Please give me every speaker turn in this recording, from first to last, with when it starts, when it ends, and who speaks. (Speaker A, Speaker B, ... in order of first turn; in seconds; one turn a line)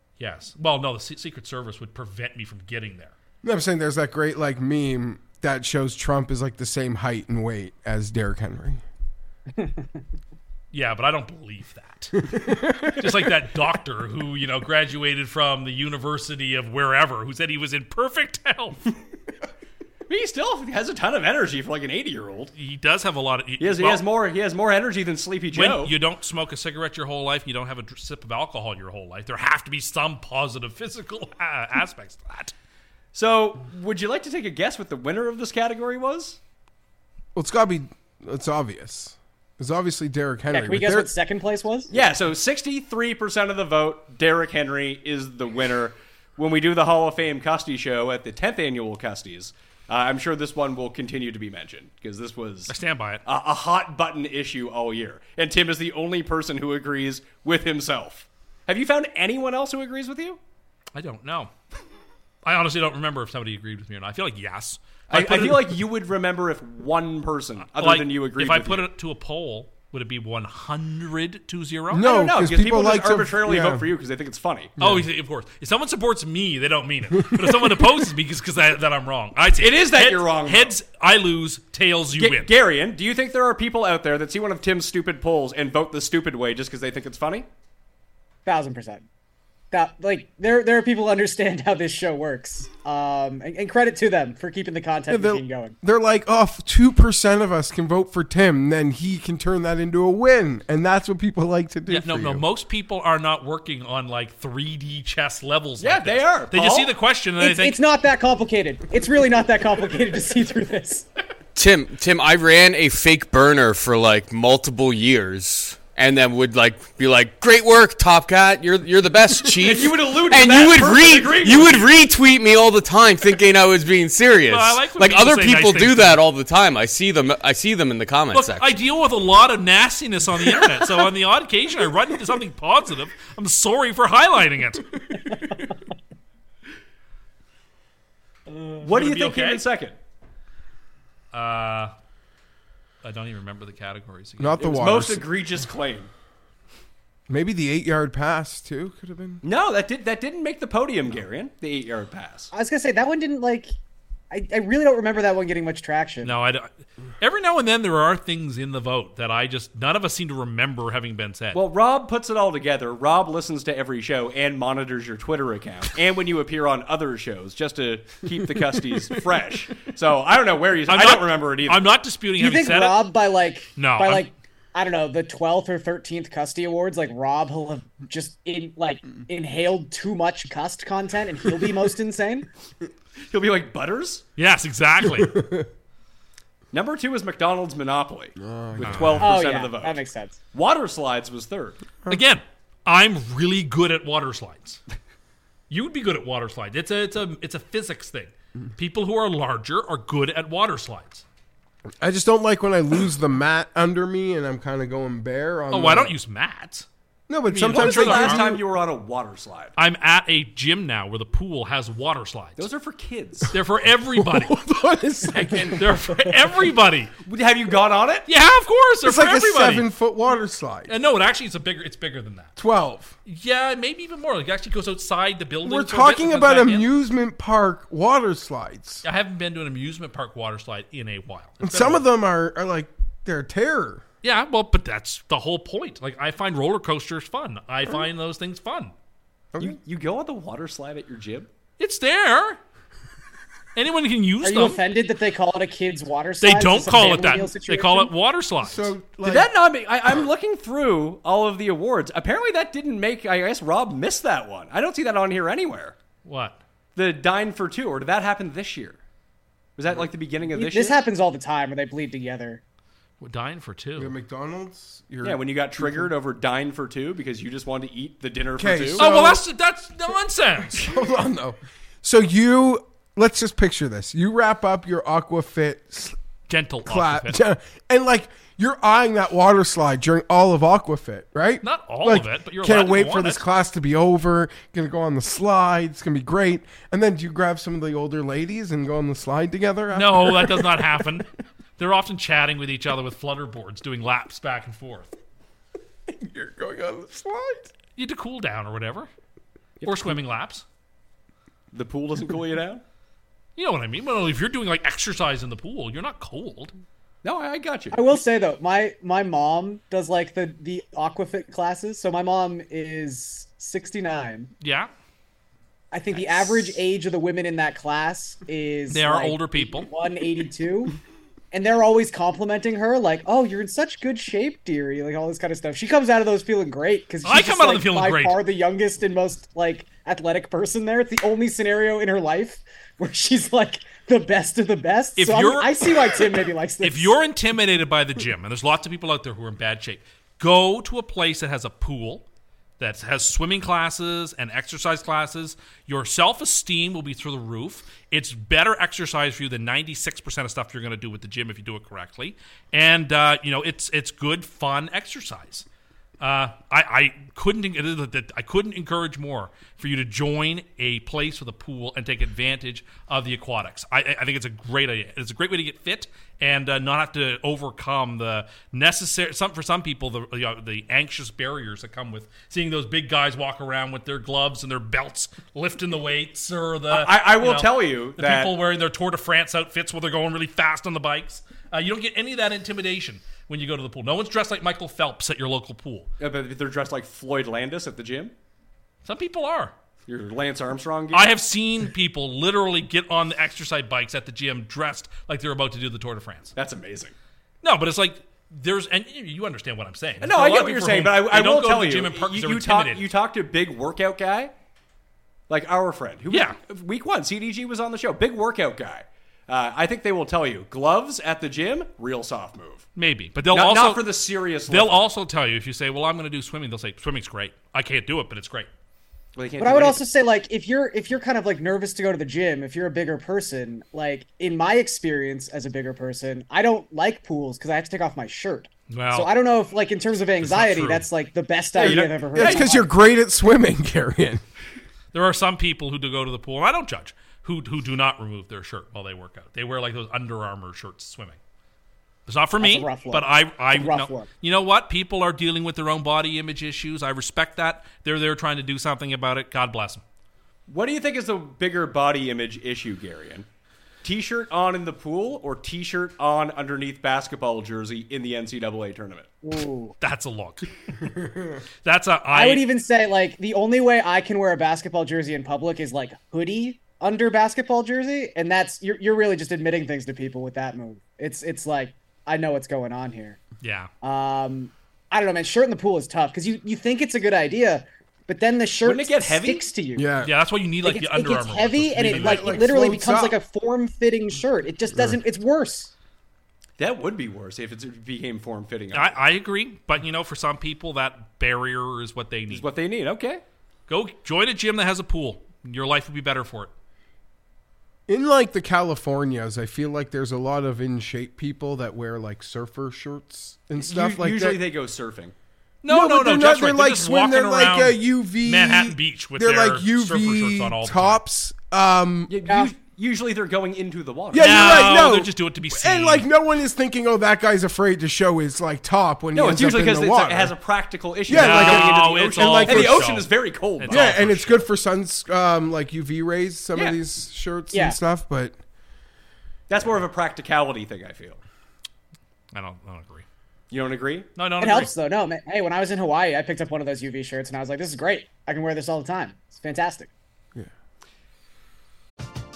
Speaker A: 0.2-3.1
Speaker B: 3.4-8.8
Speaker A: 10.7-12.4
Speaker B: 12.2-13.1
Speaker A: 13.0-18.8
Speaker C: 20.1-22.5
Speaker A: 22.6-24.0
Speaker C: 23.6-25.9
Speaker A: 25.5-32.5
Speaker C: 33.1-36.4
Speaker B: 37.4-41.1
Speaker D: 40.5-41.9
Speaker C: 41.9-60.4
Speaker A: 52.7-53.2
Speaker A: 61.0-61.5
Speaker A: 62.4-65.8
Speaker C: 65.1-68.9
Speaker A: 67.8-72.1
Speaker B: 71.9-73.9
Speaker C: 72.0-74.8
Speaker B: 74.8-75.1
Speaker A: 74.8-82.5
Speaker B: 77.3-77.7
Speaker C: 79.6-80.8
Speaker C: 82.2-87.5
Speaker D: 88.5-89.0
Speaker D: 89.7-95.8
Speaker B: 95.1-102.5
Speaker A: 101.9-107.8
Speaker C: 105.8-107.0
Speaker D: 107.4-111.1
Speaker E: 111.5-128.8
Speaker C: 119.6-121.9
Speaker A: 124.5-126.2
Speaker A: 128.3-135.4
Speaker C: 138.8-140.0
Speaker A: 138.9-139.6
Speaker A: 141.3-141.9
Speaker A: 143.0-144.9
Speaker B: 144.4-145.3
Speaker C: 144.6-146.1
Speaker B: 147.3-149.4
Speaker C: 149.4-152.5
Speaker D: 152.5-153.7
Speaker D: 154.3-156.3
Speaker A: 156.2-161.6
Speaker C: 161.5-171.9
Speaker A: 170.9-173.0
Speaker D: 172.4-182.5
Speaker A: 173.8-174.3
Speaker C: 183.3-184.2
Speaker A: 184.4-185.4
Speaker B: 185.1-185.7
Speaker C: 186.7-190.0
Speaker B: 188.4-189.3
Speaker A: 188.8-189.3
Speaker D: 189.2-190.4
Speaker C: 190.5-191.8
Speaker A: 192.1-194.8
Speaker A: 195.7-201.2
Speaker B: 202.0-206.2
Speaker A: 205.7-206.9
Speaker B: 207.3-208.6
Speaker A: 207.5-208.5
Speaker C: 207.7-209.8
Speaker A: 209.8-212.7
Speaker C: 212.6-213.5
Speaker A: 213.5-214.6
Speaker B: 214.1-216.1
Speaker A: 215.5-217.1
Speaker C: 217.3-218.3
Speaker A: 218.3-219.9
Speaker B: 219.0-220.9
Speaker A: 220.9-222.5
Speaker B: 222.6-223.2
Speaker A: 223.3-226.9
Speaker B: 225.6-229.0
Speaker A: 229.0-232.1
Speaker B: 231.6-234.0
Speaker A: 234.2-238.9
Speaker B: 239.5-239.8
Speaker C: 239.6-241.5
Speaker A: 241.8-242.6
Speaker A: 243.8-244.8
Speaker D: 244.4-248.1
Speaker A: 246.4-248.9
Speaker B: 248.6-249.5
Speaker C: 249.2-256.0
Speaker A: 256.2-256.6
Speaker C: 257.0-259.0
Speaker C: 259.8-261.0
Speaker D: 260.5-262.6
Speaker A: 263.2-264.1
Speaker B: 264.0-266.1
Speaker C: 265.2-269.1
Speaker B: 268.6-269.4
Speaker A: 269.0-270.9
Speaker B: 270.8-276.1
Speaker A: 276.5-277.4
Speaker B: 276.9-291.1
Speaker A: 281.6-283.4
Speaker A: 289.9-291.3
Speaker A: 291.8-295.1
Speaker B: 296.1-297.7
Speaker A: 298.0-299.1
Speaker A: 299.8-300.6
Speaker C: 301.7-302.8
Speaker A: 303.6-306.7
Speaker C: 307.2-308.0
Speaker D: 307.9-314.5
Speaker A: 314.6-314.9
Speaker D: 315.9-320.9
Speaker C: 316.1-316.8
Speaker A: 318.9-319.9
Speaker D: 321.5-337.2
Speaker A: 327.2-328.4
Speaker A: 335.2-335.7
Speaker A: 336.8-342.3
Speaker A: 342.8-355.7
Speaker A: 356.2-386.1
Speaker C: 376.9-378.6
Speaker C: 386.2-388.3
Speaker A: 389.0-389.7
Speaker C: 390.1-391.3
Speaker A: 391.1-396.5
Speaker C: 396.6-397.1
Speaker A: 397.6-403.1
Speaker C: 400.2-404.5
Speaker C: 405.5-412.9
Speaker A: 406.3-406.6
Speaker A: 413.0-414.1
Speaker C: 413.5-415.1
Speaker A: 414.7-418.7
Speaker C: 419.4-420.0
Speaker D: 419.6-432.9
Speaker A: 428.9-429.3
Speaker A: 430.4-431.1
Speaker C: 431.8-432.7
Speaker B: 431.8-434.4
Speaker A: 435.1-441.4
Speaker A: 442.3-450.0
Speaker D: 442.6-444.3
Speaker C: 450.7-453.5
Speaker C: 454.0-459.3
Speaker D: 459.4-460.0
Speaker A: 460.0-460.7
Speaker A: 461.8-462.6
Speaker D: 462.3-473.4
Speaker A: 473.6-473.9
Speaker D: 474.0-480.1
Speaker C: 478.8-479.7
Speaker B: 480.0-480.3
Speaker A: 480.2-482.6
Speaker D: 480.8-485.9
Speaker B: 482.1-483.4
Speaker C: 486.8-489.2
Speaker A: 488.9-492.7
Speaker C: 492.5-493.4
Speaker A: 493.9-496.7
Speaker B: 498.1-504.6
Speaker C: 503.8-505.3
Speaker A: 505.8-511.2
Speaker B: 505.9-512.3
Speaker C: 512.3-514.7
Speaker B: 514.3-520.5
Speaker A: 514.4-516.3
Speaker C: 519.4-524.2
Speaker B: 521.3-523.1
Speaker A: 521.3-524.7
Speaker B: 523.9-528.6
Speaker D: 527.7-528.0
Speaker C: 529.7-531.4
Speaker A: 532.5-533.2
Speaker C: 533.7-534.3
Speaker A: 534.4-534.9
Speaker D: 534.6-540.1